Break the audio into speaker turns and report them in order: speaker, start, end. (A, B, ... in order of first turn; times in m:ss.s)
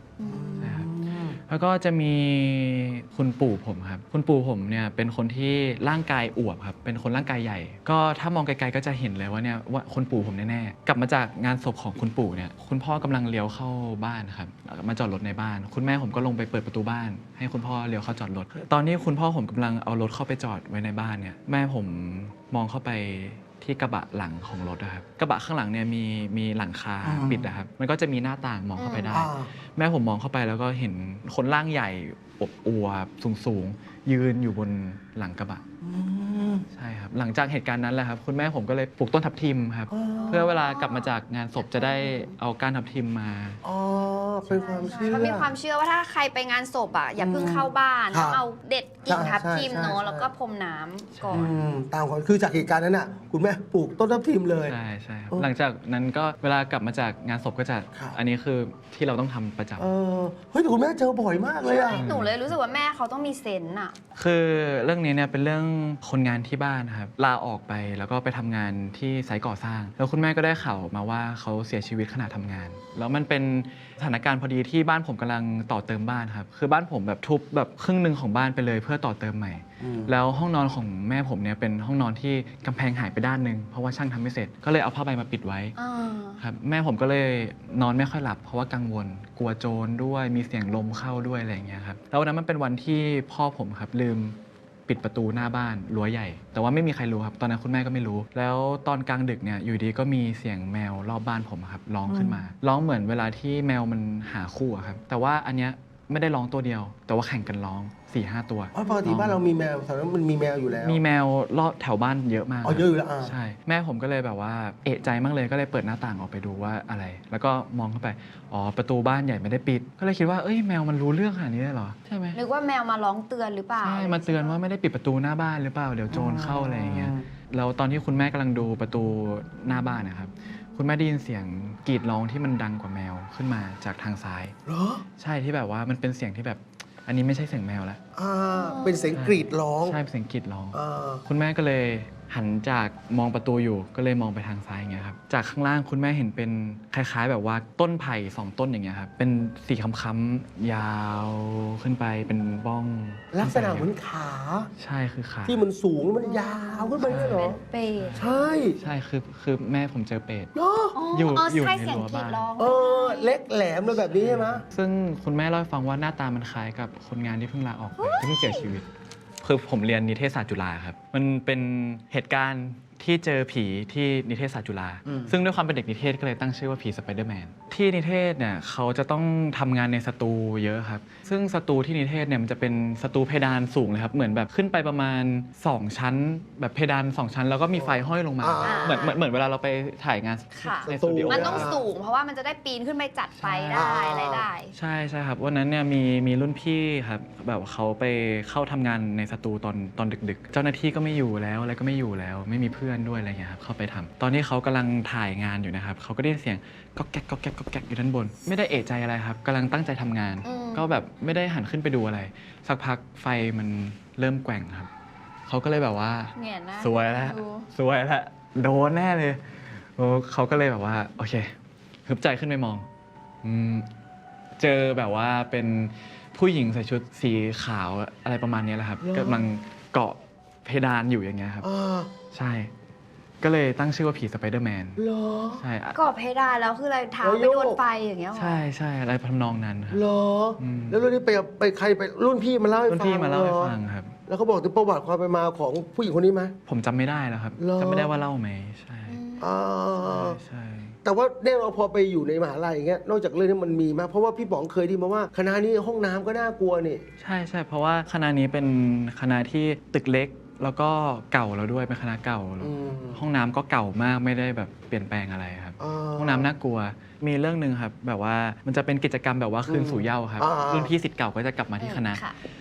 0:00.2-0:00.8 A
0:00.2-0:01.4 B
0:00.6-0:35.6 C
0:27.0-0:27.5 B
0:28.8-0:29.2 A
0:29.1-0:29.5 B
0:35.8-0:36.6 B
0:36.7-0:43.6 C
0:39.9-0:40.5 B
0:40.2-0:42.3 A
0:43.6-0:45.5 B
0:44.5-0:51.4 A
0:44.6-0:45.4 C
0:47.2-0:48.4 B
0:49.0-0:50.3 B
0:51.1-0:51.6 C
0:51.3-0:54.7 B
0:54.6-0:59.9 C
0:59.8-1:02.1 B
1:01.7-1:04.0 A
1:01.9-1:02.5 C
1:04.2-1:25.8 C
1:19.8-1:20.1 B
1:25.8-1:26.4 A
1:26.4-1:49.4 C
1:42.1-1:42.4 B
1:48.7-1:51.0 B
1:48.8-1:49.1 A
1:50.8-2:02.4 C
1:52.6-1:53.3 B
2:02.3-2:04.6 A
2:03.8-2:14.5 C
2:06.1-2:07.3 B
2:14.6-2:15.0 B
2:15.2-2:18.0 C
2:18.1-2:20.0 B
2:18.5-2:19.1 A
2:19.1-2:33.9 C
2:20.7-2:21.2 B
2:33.3-2:34.7 B
2:34.8-2:35.6 C
2:35.4-2:37.6 B
2:36.2-2:38.2 A
2:37.0-2:40.5 C
2:38.2-2:38.8 B
2:40.5-2:41.0 B
2:40.9-2:43.4 A
2:41.1-2:42.5 C
2:42.6-2:44.6 B
2:44.1-2:48.9 C
2:48.0-2:48.6 A
2:49.4-3:11.7 C
2:55.0-2:55.4 B
3:07.7-3:09.0 B
3:08.6-3:09.2 A
3:10.5-3:14.8 A
3:10.8-3:11.8 B
3:13.4-3:14.0 C
3:13.7-3:14.5 B
3:14.7-3:34.9 C
3:30.4-3:30.9 A
3:35.5-3:41.5 C
3:36.4-3:37.7 A
3:42.0-3:42.9 C
3:43.4-3:43.9 C
3:44.6-3:51.7 C
3:49.0-3:49.5 B
3:51.6-3:52.1 B
3:52.3-3:52.7 C
3:53.4-3:55.0 C
3:55.0-3:55.6 B
3:55.5-3:56.0 C
3:55.9-3:58.6 A
3:57.2-3:57.8 B
3:58.3-4:00.0 C
3:59.9-4:03.8 B
4:00.6-4:01.1 C
4:02.9-4:04.1 C
4:04.3-4:06.5 B
4:06.7-4:09.2 C
4:07.6-4:08.1 B
4:09.1-4:09.5 A
4:09.4-4:10.4 B
4:10.0-4:11.0 C
4:11.0-4:17.0 B
4:17.2-4:32.2 C
4:22.6-4:23.2 B
4:25.8-4:26.5 B
4:29.7-4:30.9 B
4:31.8-4:32.4 A